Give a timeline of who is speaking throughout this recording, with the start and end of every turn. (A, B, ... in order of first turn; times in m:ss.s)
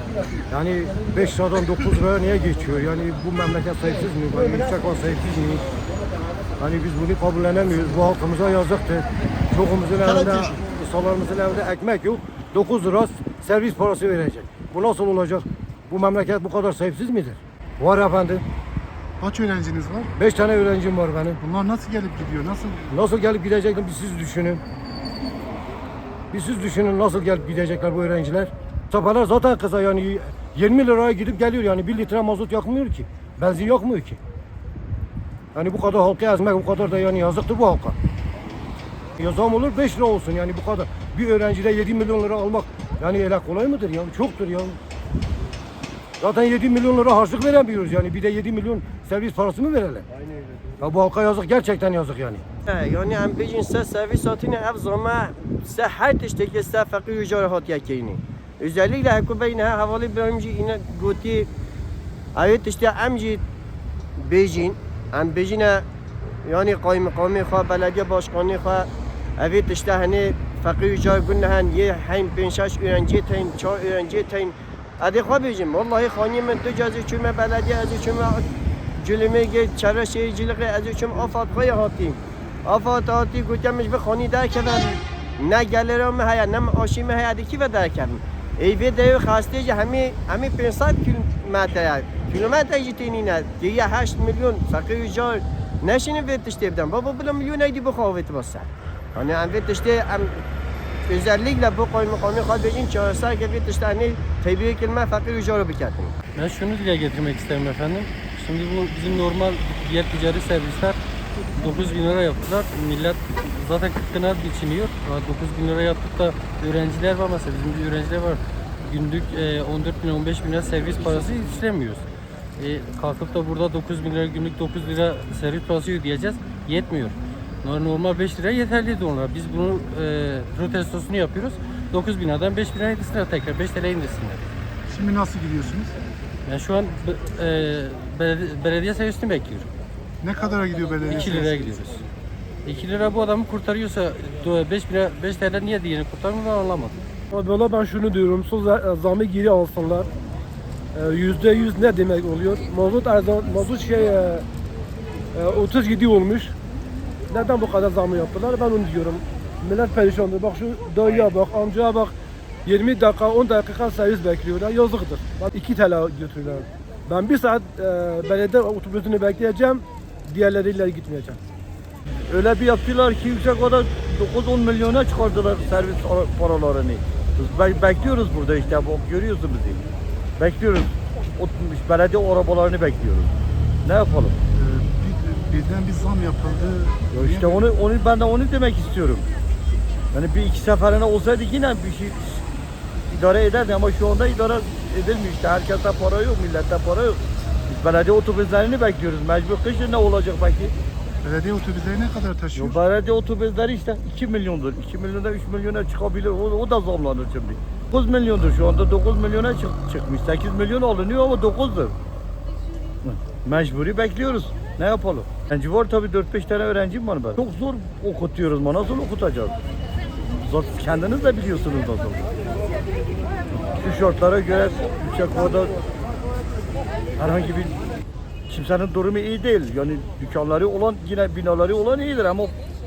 0:00.5-0:05.6 A
0:06.6-0:18.4 A
0:19.2-0:20.1 B
0:20.2-0:21.4 A
0:21.4-0:22.9 B
0:22.9-0:24.6 A
0:26.3-0:34.2 A
0:35.5-0:38.0 A
0:39.2-0:44.8 A
0:46.2-0:50.1 A
0:50.8-0:52.4 A
0:52.7-1:01.5 C
1:02.4-1:03.4 C
1:04.2-1:05.8 C
1:06.4-1:18.4 C
1:19.0-1:40.3 C
1:41.1-1:46.1 C
1:46.4-1:51.0 D
1:51.5-2:02.0 D
2:02.6-2:14.4 D
2:14.9-2:16.0 B
2:16.5-2:19.7 D
2:20.2-2:21.8 B
2:21.1-2:22.0 D
2:22.6-2:27.0 D
2:27.3-2:30.1 E
2:31.0-2:34.4 E
2:35.4-2:36.5 E
2:37.3-2:42.1 E
2:42.7-2:51.4 E
2:52.3-2:59.9 F
3:00.4-3:03.3 F
3:03.8-3:04.4 F
3:04.5-3:07.6 B
3:07.1-3:09.3 F
3:10.1-3:12.4 F
3:13.1-3:20.7 F
3:21.2-3:22.8 B
3:22.6-3:32.0 F
3:33.0-3:39.6 F
3:40.4-3:42.3 F
3:43.8-3:45.7 F
3:47.2-3:47.8 F
3:48.5-3:52.5 F